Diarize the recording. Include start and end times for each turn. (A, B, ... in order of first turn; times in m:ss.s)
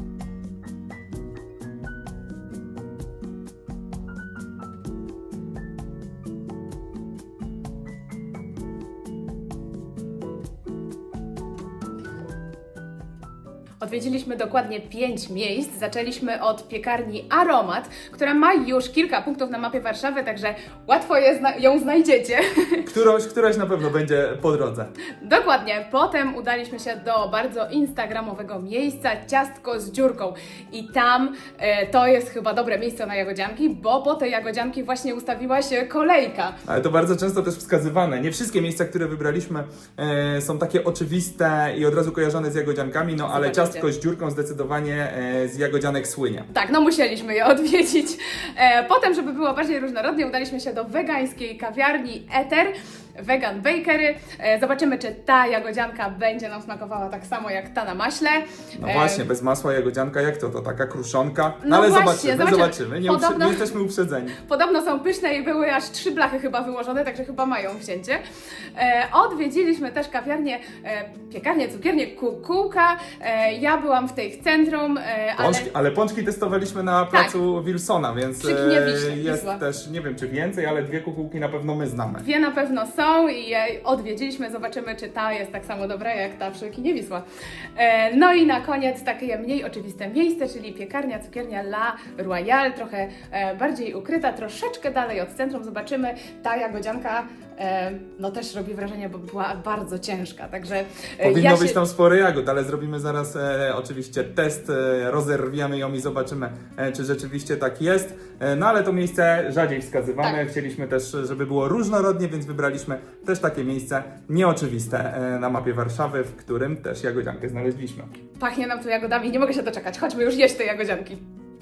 0:13.8-0:22.8 A
0:22.8-0:24.9 B
0:25.2-0:36.6 A
0:36.6-0:46.5 B
0:43.2-0:43.9 A
0:46.5-0:59.2 A
0:58.8-1:04.4 B
1:01.6-1:03.7 A
1:04.4-1:08.2 A
1:08.7-1:15.7 A
1:15.4-1:22.2 B
1:18.4-1:19.6 A
1:22.2-1:41.8 A
1:41.2-1:58.1 B
1:58.4-2:01.2 A